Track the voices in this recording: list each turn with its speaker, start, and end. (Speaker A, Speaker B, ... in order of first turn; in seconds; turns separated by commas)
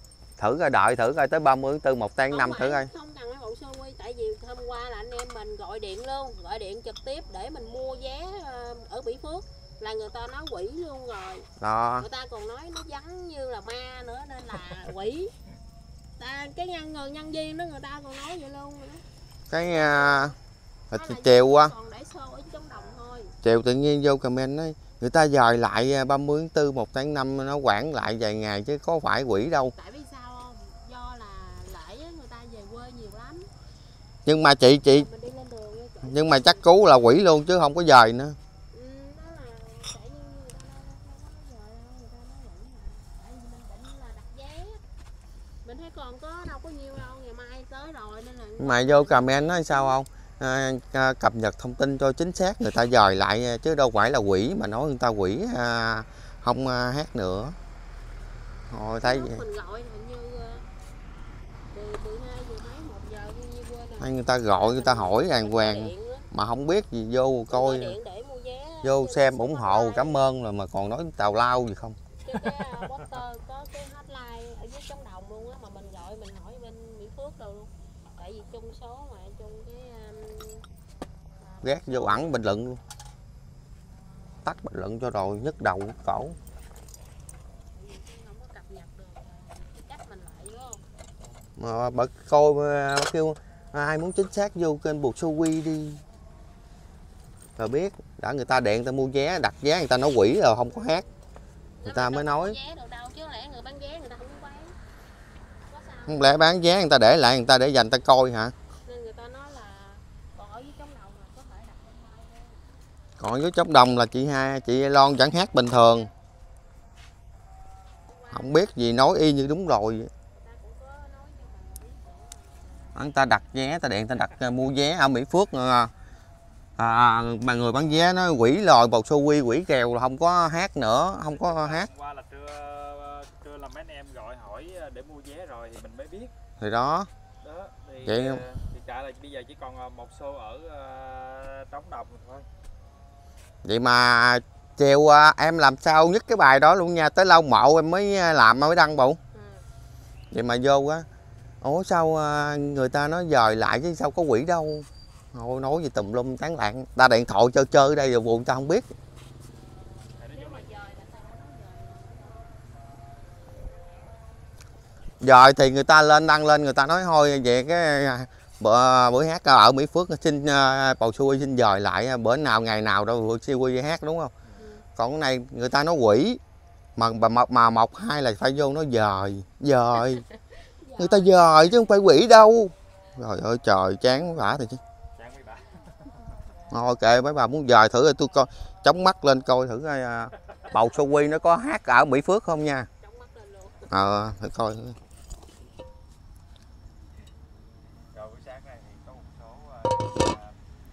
Speaker A: 0.4-2.9, Speaker B: 2.2-15.3, Speaker A: 11.6-12.1, Speaker B: 16.2-19.0, Speaker A: 19.5-20.4, Speaker B: 19.6-20.3, Speaker A: 20.9-21.7, Speaker B: 20.9-23.4, Speaker A: 23.4-29.7, Speaker B: 29.7-33.5, Speaker A: 34.2-35.1, Speaker B: 34.9-37.1, Speaker A: 36.0-38.4, Speaker B: 38.7-44.8, Speaker B: 45.6-50.0, Speaker A: 48.6-57.6, Speaker A: 58.7-59.4, Speaker B: 59.0-60.7, Speaker B: 61.7-66.2, Speaker A: 64.0-68.0, Speaker B: 67.5-70.2, Speaker A: 68.8-72.0, Speaker B: 72.2-80.7, Speaker B: 81.4-82.3, Speaker A: 81.6-82.8, Speaker A: 84.4-86.4, Speaker B: 87.7-90.8, Speaker A: 91.5-96.0, Speaker A: 97.6-101.0, Speaker B: 101.8-104.8, Speaker A: 101.8-102.6, Speaker B: 105.7-106.7, Speaker A: 106.1-108.5, Speaker B: 108.8-112.7, Speaker A: 113.2-116.1, Speaker B: 118.0-118.8, Speaker A: 118.3-120.1, Speaker B: 120.3-123.1, Speaker A: 122.9-125.9, Speaker A: 126.8-131.9, Speaker C: 131.3-136.3, Speaker A: 136.6-137.1, Speaker C: 137.4-142.5, Speaker A: 138.0-138.4, Speaker A: 143.6-149.2, Speaker B: 149.3-149.7, Speaker A: 150.3-151.1, Speaker A: 151.6-158.9, Speaker C: 160.2-160.5, Speaker B: 160.3-162.6, Speaker B: 163.4-164.1, Speaker A: 165.2-174.3, Speaker B: 174.6-174.8, Speaker A: 174.9-176.4, Speaker A: 176.9-180.2, Speaker B: 180.0-181.3, Speaker A: 181.0-184.8, Speaker C: 185.2-186.0, Speaker A: 186.7-192.9, Speaker B: 193.0-193.9, Speaker A: 193.9-195.0, Speaker C: 198.1-200.5